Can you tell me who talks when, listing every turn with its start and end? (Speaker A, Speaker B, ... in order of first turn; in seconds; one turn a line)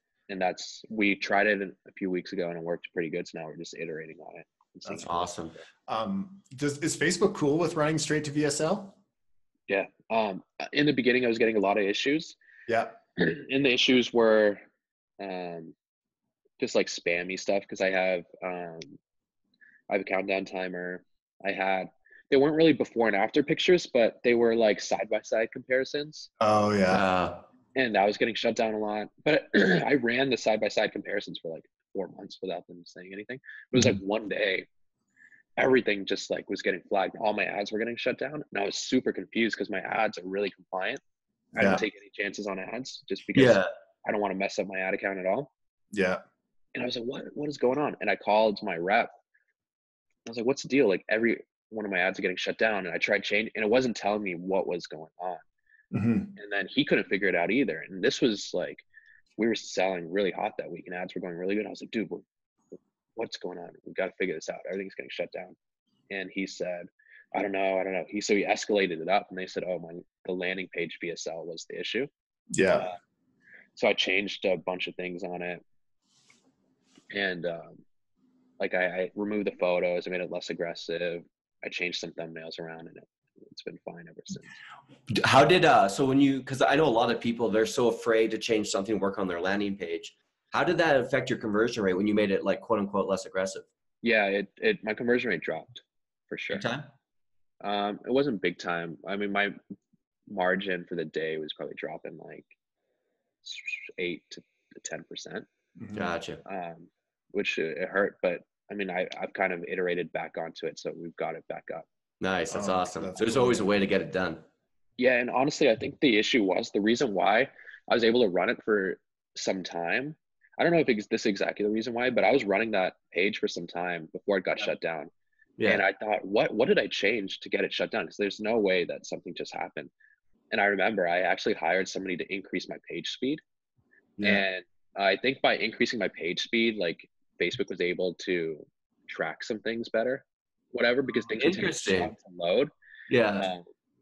Speaker A: 0.3-5.3
Speaker B: 5.0-5.5
Speaker C: 5.9-8.9
Speaker A: 9.7-12.4
Speaker C: 12.7-12.9
Speaker A: 13.2-14.6
Speaker A: 15.2-15.7
Speaker A: 16.6-19.0
Speaker A: 19.9-26.3
Speaker C: 26.4-27.0
Speaker B: 26.9-27.4
Speaker A: 27.7-34.7
Speaker A: 35.6-41.0
Speaker C: 41.5-41.8
Speaker A: 41.5-45.5
Speaker B: 43.3-43.7
Speaker C: 45.9-46.2
Speaker A: 46.7-49.1
Speaker A: 50.3-55.4
Speaker C: 55.9-56.3
Speaker A: 56.4-58.8
Speaker A: 59.4-62.2
Speaker A: 63.1-65.5
Speaker A: 66.1-72.1
Speaker C: 72.5-72.9
Speaker A: 73.7-75.6
Speaker A: 77.1-77.8
Speaker A: 78.6-84.5
Speaker B: 85.1-93.6
Speaker A: 94.0-96.6
Speaker B: 96.5-96.9
Speaker A: 97.6-99.5
Speaker A: 100.3-102.5
Speaker A: 103.4-105.5
Speaker C: 105.8-106.1
Speaker B: 105.9-106.4
Speaker A: 106.4-111.8
Speaker B: 112.2-114.4
Speaker C: 112.5-113.7
Speaker A: 115.0-125.1
Speaker B: 125.6-125.8
Speaker A: 125.6-129.9
Speaker A: 130.5-133.4
Speaker A: 134.2-142.7
Speaker B: 141.3-142.1
Speaker B: 143.1-143.5
Speaker A: 143.4-143.6